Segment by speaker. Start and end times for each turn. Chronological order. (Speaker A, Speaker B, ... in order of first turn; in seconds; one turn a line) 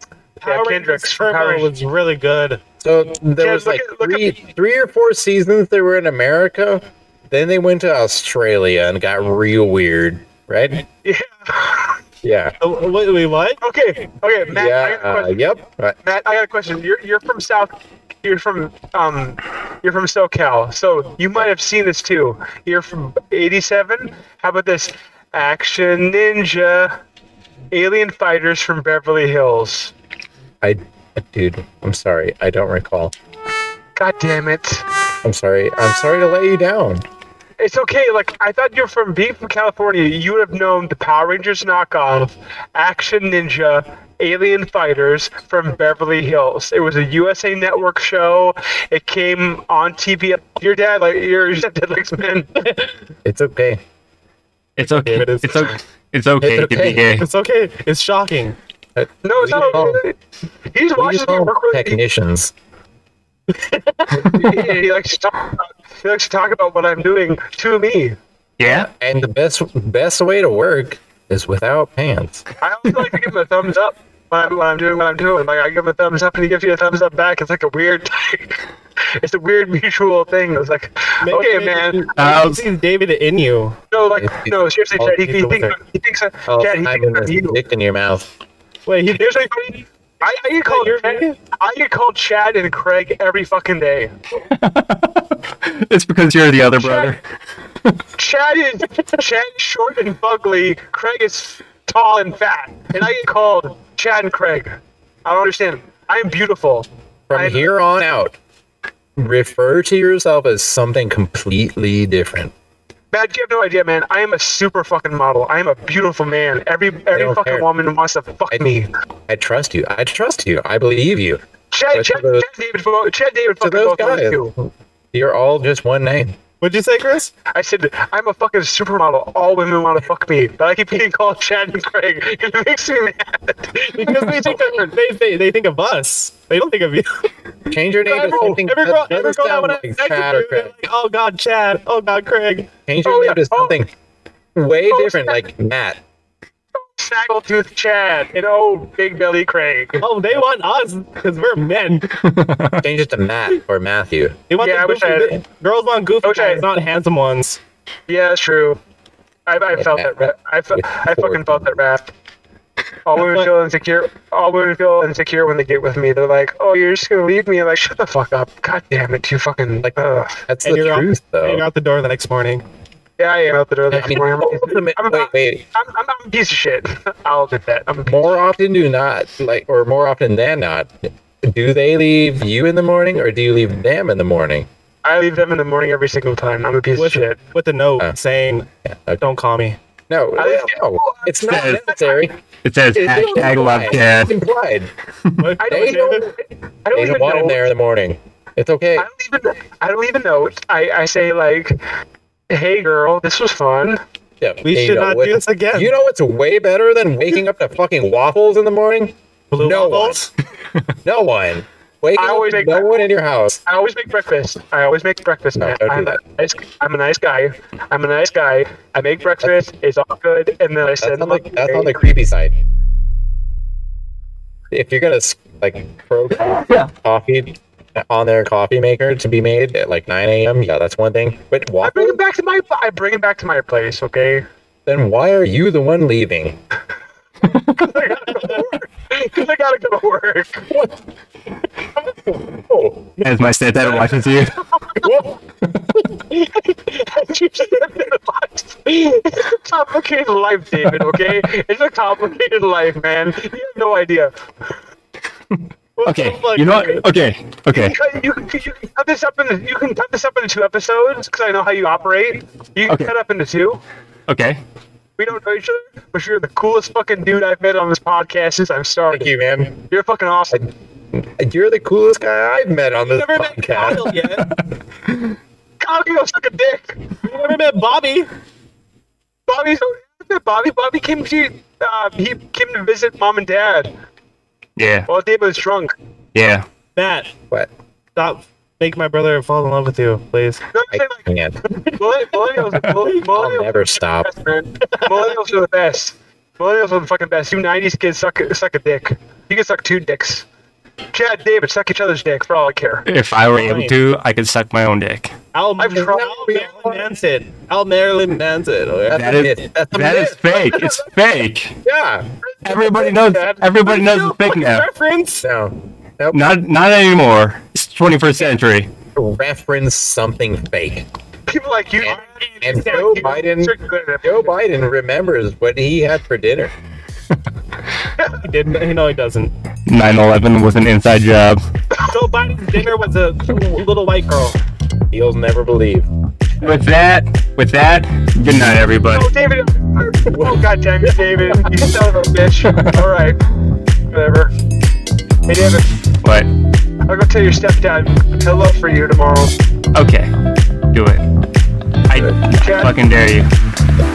Speaker A: 0.4-2.6
Speaker B: 0.5-1.7
Speaker C: 2.8-10.8
Speaker B: 3.4-4.4
Speaker B: 11.0-12.0
Speaker C: 12.2-12.6
Speaker A: 12.6-13.6
Speaker B: 13.6-15.4
Speaker C: 14.5-16.0
Speaker B: 16.0-27.0
Speaker B: 27.7-29.9
Speaker C: 30.6-33.1
Speaker B: 34.0-34.9
Speaker C: 35.2-37.1
Speaker B: 37.6-52.5
Speaker A: 52.6-53.0
Speaker C: 53.2-53.8
Speaker D: 54.8-57.3
Speaker A: 54.8-55.8
Speaker C: 56.4-57.1
Speaker A: 57.2-58.6
Speaker C: 59.0-60.0
Speaker B: 59.2-60.2
Speaker B: 60.7-62.0
Speaker C: 61.0-62.5
Speaker A: 63.5-64.8
Speaker C: 64.2-64.5
Speaker B: 64.2-68.2
Speaker D: 68.6-68.9
Speaker C: 68.7-72.4
Speaker B: 72.6-78.7
Speaker B: 79.2-82.0
Speaker A: 81.2-83.8
Speaker D: 82.2-82.7
Speaker B: 83.9-87.6
Speaker C: 84.2-85.1
Speaker A: 85.1-85.8
Speaker C: 86.5-88.3
Speaker A: 88.9-89.4
Speaker B: 89.1-94.2
Speaker A: 90.6-91.4
Speaker D: 94.5-97.2
Speaker B: 96.8-97.2
Speaker B: 98.2-107.7
Speaker C: 107.3-108.4
Speaker C: 109.2-112.5
Speaker B: 113.1-118.9
Speaker C: 117.1-117.7
Speaker C: 119.3-122.5
Speaker B: 121.7-124.5
Speaker C: 123.6-126.4
Speaker A: 126.6-127.3
Speaker B: 127.5-134.9
Speaker A: 133.9-137.3
Speaker C: 137.7-140.8
Speaker A: 138.1-142.7
Speaker B: 138.2-138.6
Speaker C: 142.9-143.9
Speaker B: 143.0-143.8
Speaker C: 144.6-146.0
Speaker B: 144.9-145.4
Speaker B: 146.8-150.1
Speaker A: 150.0-152.2
Speaker D: 152.2-152.8
Speaker C: 152.8-154.4
Speaker A: 154.5-157.6
Speaker B: 154.6-155.4
Speaker B: 156.2-156.7
Speaker B: 158.1-158.8
Speaker B: 159.5-162.1
Speaker C: 159.7-161.8
Speaker B: 163.1-170.4
Speaker A: 163.2-163.5
Speaker C: 169.8-171.7
Speaker A: 170.6-172.7
Speaker B: 173.2-178.4
Speaker C: 173.9-175.6
Speaker C: 178.1-184.7
Speaker B: 185.0-187.4
Speaker A: 187.0-188.7
Speaker C: 188.8-189.2
Speaker A: 189.2-189.8
Speaker C: 190.1-192.3
Speaker B: 190.4-192.3
Speaker D: 191.5-191.8
Speaker D: 192.6-194.3
Speaker B: 192.9-194.0
Speaker C: 193.1-194.9
Speaker A: 195.4-196.3
Speaker B: 195.6-197.6
Speaker C: 195.7-196.3
Speaker C: 196.9-199.1
Speaker B: 199.0-201.8
Speaker B: 202.5-204.0
Speaker C: 204.4-210.2
Speaker A: 204.6-205.9
Speaker A: 209.5-210.3
Speaker C: 211.1-213.6
Speaker B: 212.2-213.0
Speaker B: 213.7-222.0
Speaker C: 215.6-216.2
Speaker C: 221.0-222.6
Speaker C: 224.7-232.2
Speaker D: 226.6-226.9
Speaker B: 231.8-234.5
Speaker C: 234.9-236.6
Speaker B: 237.6-240.7
Speaker C: 240.7-241.0
Speaker C: 242.4-243.1
Speaker D: 243.2-244.6
Speaker B: 244.7-245.1
Speaker C: 245.0-245.3
Speaker B: 246.3-254.3
Speaker D: 255.5-258.0
Speaker A: 256.0-257.1
Speaker B: 257.7-263.8
Speaker D: 264.3-264.6
Speaker B: 265.2-269.3
Speaker C: 269.1-269.8
Speaker B: 269.9-270.7
Speaker C: 270.5-274.2
Speaker A: 273.1-274.5
Speaker B: 275.8-277.0
Speaker A: 277.2-278.3
Speaker B: 279.5-283.9
Speaker D: 284.8-285.1
Speaker B: 285.1-285.9
Speaker D: 286.4-286.7
Speaker A: 287.0-287.3
Speaker A: 288.1-290.6
Speaker B: 290.7-291.2
Speaker C: 290.9-291.6
Speaker B: 291.9-300.5
Speaker C: 293.2-294.3
Speaker A: 294.9-295.3
Speaker B: 301.1-303.1
Speaker D: 303.1-305.3
Speaker A: 303.6-303.9
Speaker A: 305.5-309.3
Speaker B: 305.8-306.7
Speaker C: 306.0-307.1
Speaker C: 309.1-310.9
Speaker D: 309.1-311.8
Speaker C: 311.8-312.3
Speaker B: 312.5-313.6
Speaker D: 312.6-314.9
Speaker A: 313.7-315.5
Speaker C: 315.4-316.6
Speaker D: 316.3-318.9
Speaker C: 319.1-321.1
Speaker B: 321.5-324.5
Speaker C: 322.0-326.7
Speaker A: 322.7-323.4
Speaker A: 328.4-329.5
Speaker D: 329.9-331.6
Speaker B: 331.9-332.3
Speaker A: 332.1-334.6
Speaker C: 335.1-336.1
Speaker D: 336.6-339.3
Speaker B: 339.1-343.4
Speaker C: 340.3-341.6
Speaker B: 344.1-344.5
Speaker B: 345.5-345.9
Speaker D: 346.2-346.5
Speaker B: 347.1-349.5
Speaker D: 349.9-350.3
Speaker D: 350.9-351.2
Speaker D: 352.1-353.5
Speaker B: 352.6-352.9